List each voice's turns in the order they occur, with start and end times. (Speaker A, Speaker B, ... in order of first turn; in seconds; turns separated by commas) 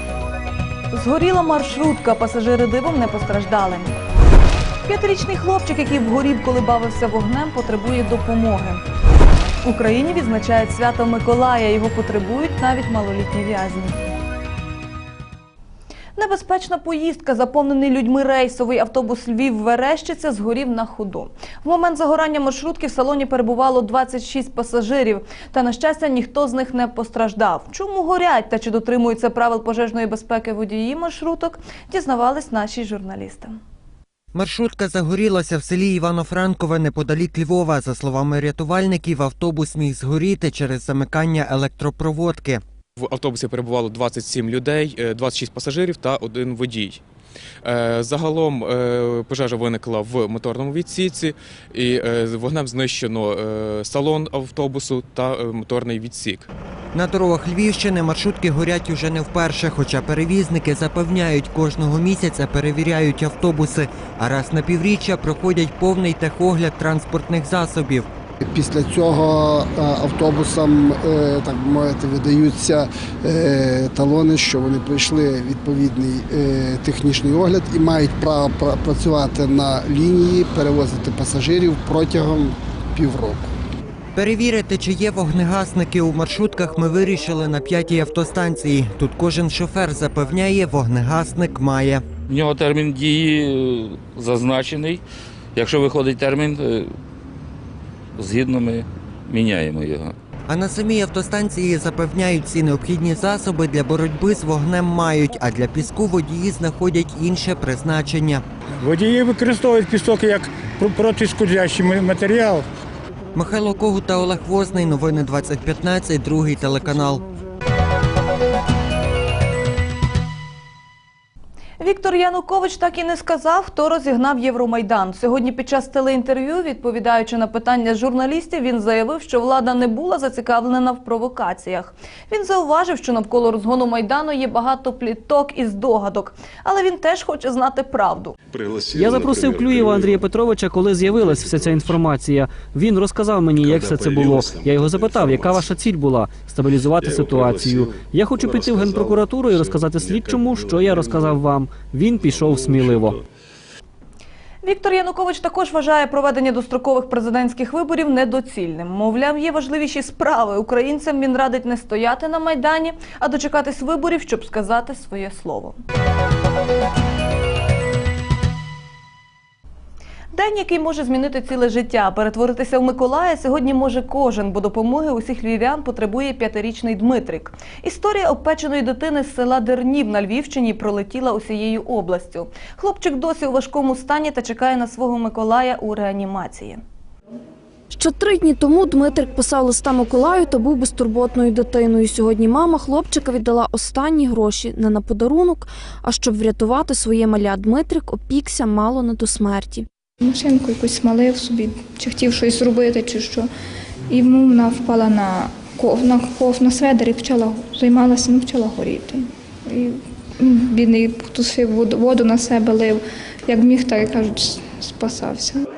Speaker A: 0.9-4.0, Speaker A: 4.8-8.8, Speaker A: 9.6-14.0, Speaker A: 16.2-33.6, Speaker B: 34.3-42.6, Speaker C: 43.0-47.0, Speaker C: 47.6-56.5, Speaker B: 56.9-68.1, Speaker D: 68.5-83.5, Speaker B: 84.1-92.0, Speaker E: 92.3-95.0, Speaker E: 95.5-96.9, Speaker E: 98.2-100.1, Speaker B: 100.5-108.4, Speaker F: 108.8-112.6, Speaker B: 113.3-117.2, Speaker A: 121.8-138.3, Speaker E: 138.9-139.5, Speaker G: 139.0-153.2, Speaker E: 148.5-149.1, Speaker A: 154.6-165.8, Speaker A: 170.3-186.8, Speaker H: 187.9-199.8, Speaker I: 200.2-203.5, Speaker I: 204.1-215.6